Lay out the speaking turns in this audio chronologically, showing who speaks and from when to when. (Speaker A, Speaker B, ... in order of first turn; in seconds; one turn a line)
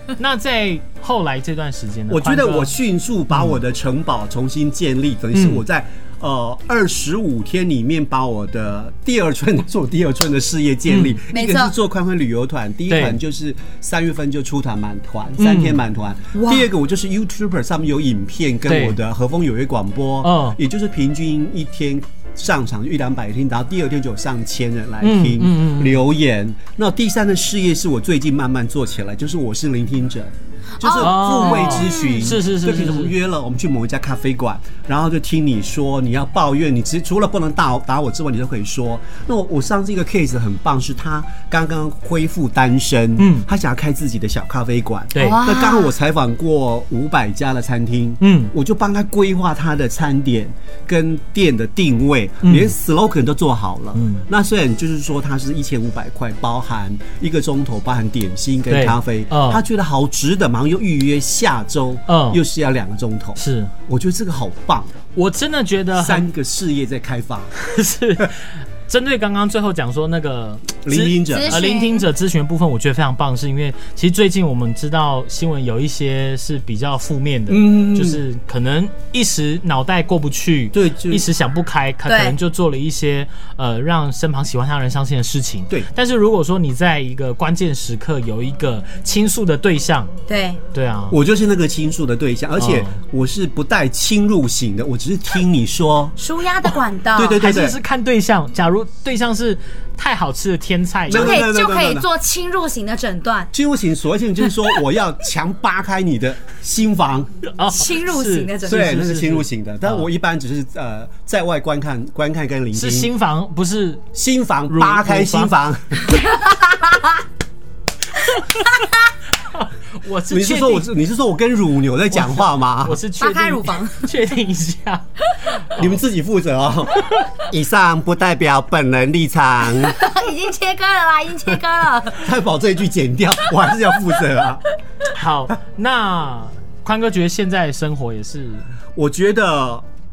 Speaker A: 0.2-2.7
Speaker B: 2.1-65.0
Speaker A: 3.3-3.6
Speaker A: 5.3-5.6
Speaker A: 10.9-11.2
Speaker C: 11.3-11.7
Speaker A: 12.9-13.2
Speaker A: 15.4-15.8
Speaker C: 16.3-16.7
Speaker A: 18.7-19.0
Speaker A: 20.2-20.6
Speaker A: 25.0-26.0
Speaker C: 30.8-32.1
Speaker A: 31.0-33.1
Speaker A: 43.2-43.5
Speaker A: 45.1-45.4
Speaker C: 45.2-45.9
Speaker A: 48.2-48.5
Speaker A: 52.4-52.7
Speaker A: 53.9-54.2
Speaker A: 58.7-59.6
Speaker A: 62.1-62.4
Speaker A: 63.4-63.7
Speaker A: 65.1-66.3
Speaker B: 65.9-67.5
Speaker A: 67.6-90.1
Speaker B: 70.8-71.6
Speaker C: 71.3-72.1
Speaker B: 77.5-78.2
Speaker B: 80.7-81.2
Speaker C: 82.0-82.4
Speaker C: 90.3-90.6
Speaker A: 90.7-91.2
Speaker B: 91.1-96.1
Speaker A: 92.6-93.0
Speaker C: 96.2-97.4
Speaker B: 97.2-97.8
Speaker A: 97.4-101.4
Speaker B: 101.1-102.1
Speaker C: 101.1-103.5
Speaker B: 103.5-107.3
Speaker A: 107.5-110.1
Speaker C: 107.7-109.0
Speaker B: 108.7-113.1
Speaker A: 112.7-114.0
Speaker B: 114.1-116.2
Speaker A: 114.7-115.5
Speaker C: 116.1-117.1
Speaker A: 119.4-120.9
Speaker B: 120.3-123.0
Speaker A: 122.1-125.0
Speaker C: 123.2-124.1
Speaker A: 125.6-126.0
Speaker B: 125.7-129.9
Speaker C: 129.8-132.3
Speaker B: 132.2-134.6
Speaker A: 135.1-138.7
Speaker B: 138.9-139.8